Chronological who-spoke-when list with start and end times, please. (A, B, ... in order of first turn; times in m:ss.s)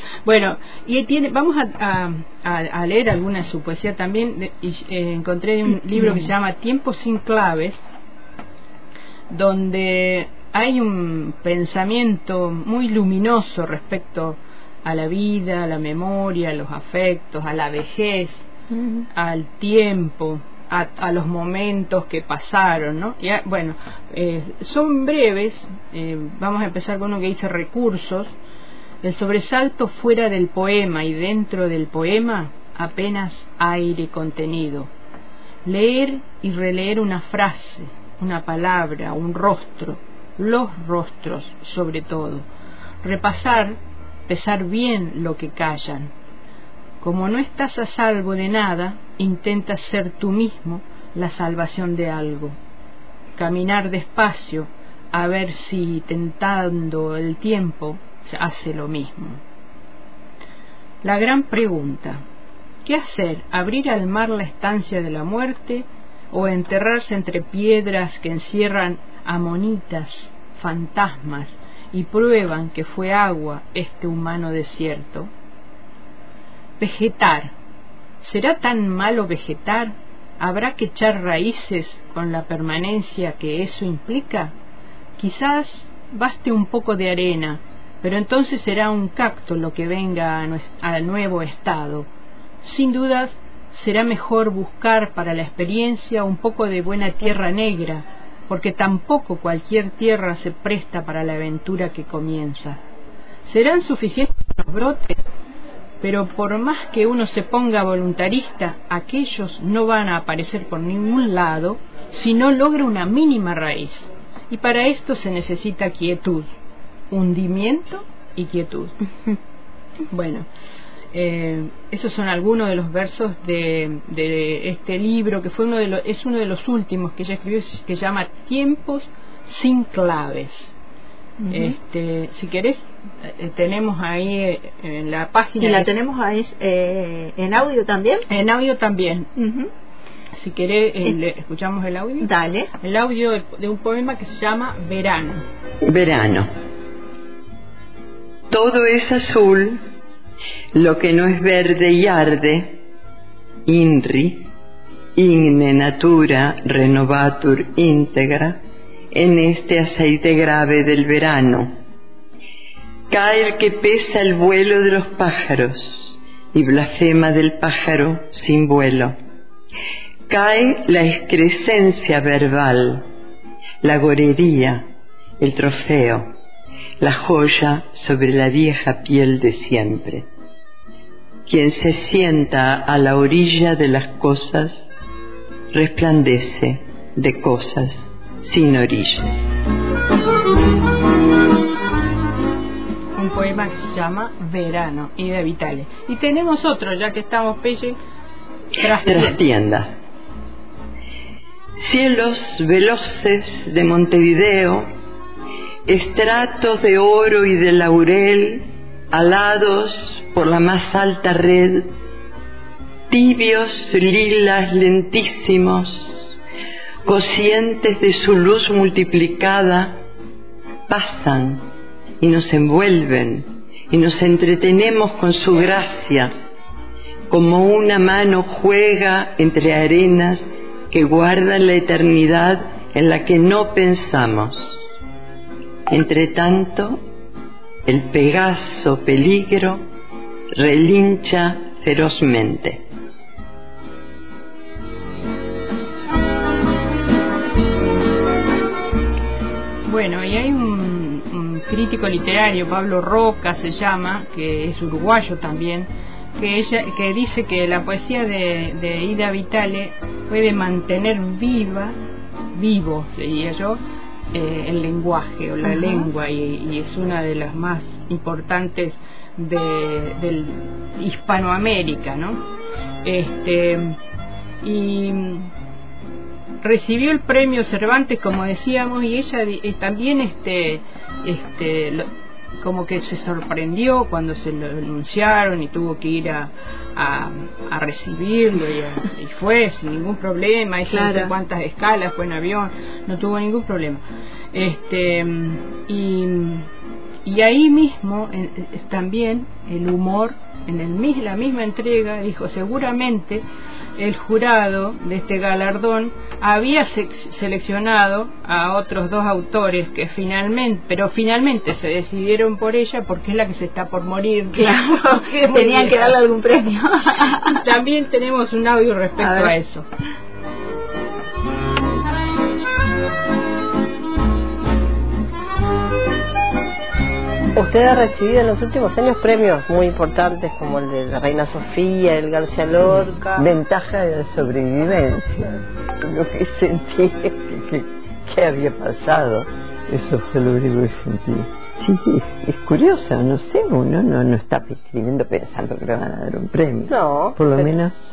0:00.2-0:07.8 A
0:09.3-0:18.5 A
0:19.1-0:28.4 A
0:29.0-0:34.9 A
0:35.6-0:42.5 A
0:43.0-0:46.1 A
0:47.0-0:52.6 A
0:53.4-0:59.4 A
1:01.0-1:02.2 A
1:02.8-1:15.3 A
1:16.8-1:17.5 A
1:18.2-1:24.5 A
1:25.2-1:32.1 A
1:32.6-1:42.8 A
1:43.4-1:45.3 A
1:46.0-1:56.5 A
1:57.1-1:59.0 A
2:00.1-2:00.5 A
2:01.1-2:10.8 A
2:11.4-2:11.8 B
2:11.5-2:15.9 A
2:15.6-2:18.3 B
2:18.3-2:19.3 A
2:19.4-2:19.7 B
2:20.4-2:25.4 A
2:22.2-2:22.7 B
2:25.8-2:26.5 C
2:28.5-2:29.8 C
2:30.7-2:32.8 C
2:33.7-2:34.5 C
2:35.2-2:38.6 C
2:39.1-2:41.7 C
2:43.1-2:49.1 C
2:50.3-2:53.0 C
2:53.8-2:54.9 C
2:55.4-2:56.3 C
2:57.0-3:00.3 C
3:01.5-3:04.8 C
3:05.7-3:09.4 C
3:13.2-3:18.0 A
3:18.8-3:19.4 A
3:19.0-3:19.9 C
3:21.8-3:24.9 C
3:25.9-3:31.9 C
3:33.1-3:36.3 C
3:37.0-3:40.0 C
3:40.9-3:41.6 C
3:42.2-3:46.3 C
3:47.3-3:54.7 C
3:55.9-3:57.0 C
3:57.9-3:59.8 C
4:00.5-4:02.8 C
4:09.8-4:22.0 A
4:22.5-4:23.8 A
4:24.3-4:32.4 A
4:33.0-4:34.0 A
4:34.6-4:35.5 A
4:36.6-4:54.0 A
4:50.9-4:51.3 B
4:54.5-4:56.7 A
4:57.2-5:03.4 A
5:04.0-5:16.2 A
5:14.6-5:17.6 B
5:17.3-5:19.9 A
5:19.2-5:19.5 B
5:27.6-5:33.5 D
5:33.3-5:48.0 E
5:46.9-5:47.8 D